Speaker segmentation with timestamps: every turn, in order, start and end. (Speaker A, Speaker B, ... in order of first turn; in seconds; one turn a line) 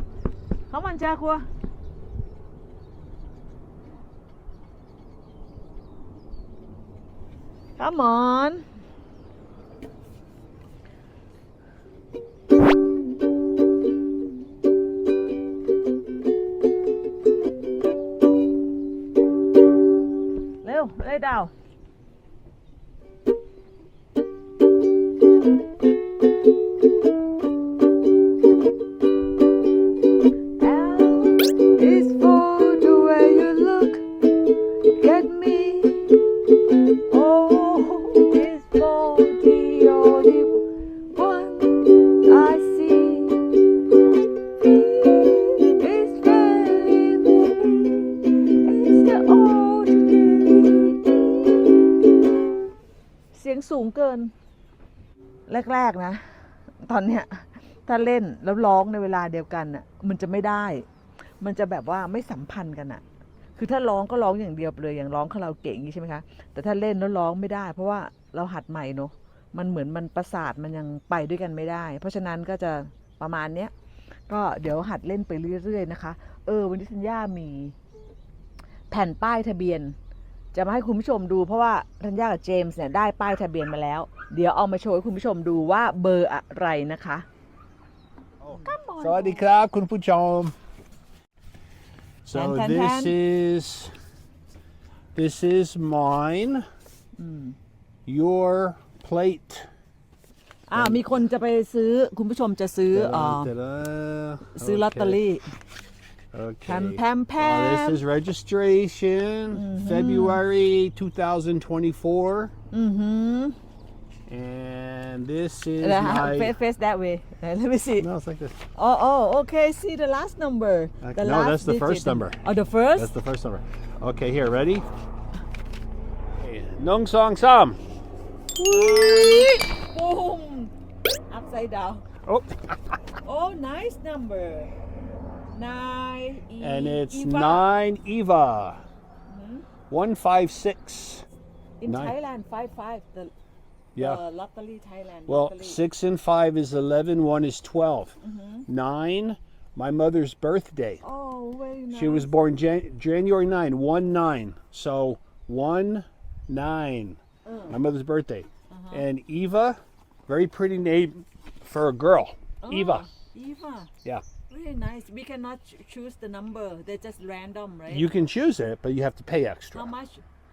Speaker A: 0.7-1.5
Speaker A: 7.8-8.6
Speaker A: 20.6-21.5
Speaker A: 30.6-34.0
Speaker A: 34.9-36.1
Speaker A: 37.1-43.4
Speaker A: 44.6-51.8
Speaker A: 53.3-54.3
Speaker A: 55.5-60.9
Speaker A: 61.4-63.0
Speaker A: 63.5-73.7
Speaker A: 74.3-77.8
Speaker A: 78.9-80.0
Speaker A: 80.5-87.2
Speaker B: 88.4-90.5
Speaker A: 88.5-89.5
Speaker B: 92.2-93.9
Speaker A: 92.3-93.2
Speaker B: 95.1-96.7
Speaker A: 97.2-97.5
Speaker B: 98.0-99.7
Speaker A: 100.7-103.5
Speaker B: 100.7-101.2
Speaker B: 102.9-105.2
Speaker A: 104.5-105.5
Speaker B: 106.3-112.5
Speaker A: 106.6-108.0
Speaker A: 109.5-110.4
Speaker A: 112.7-113.5
Speaker B: 114.3-116.5
Speaker A: 115.8-118.1
Speaker B: 118.0-118.6
Speaker A: 118.7-123.1
Speaker B: 121.0-122.4
Speaker B: 122.9-124.9
Speaker B: 126.4-127.8
Speaker A: 128.6-130.7
Speaker B: 128.6-129.7
Speaker A: 131.3-132.0
Speaker B: 132.2-133.0
Speaker A: 133.2-134.7
Speaker A: 135.5-137.7
Speaker B: 136.6-138.8
Speaker A: 139.3-139.7
Speaker B: 139.9-141.2
Speaker A: 141.8-143.3
Speaker B: 141.8-142.1
Speaker B: 143.9-144.2
Speaker A: 144.0-145.8
Speaker B: 145.3-151.0
Speaker A: 148.2-148.7
Speaker A: 151.0-152.3
Speaker B: 151.9-163.1
Speaker A: 157.4-157.8
Speaker A: 158.7-159.0
Speaker A: 162.6-163.9
Speaker A: 164.5-168.1
Speaker B: 167.9-169.9
Speaker A: 169.7-170.2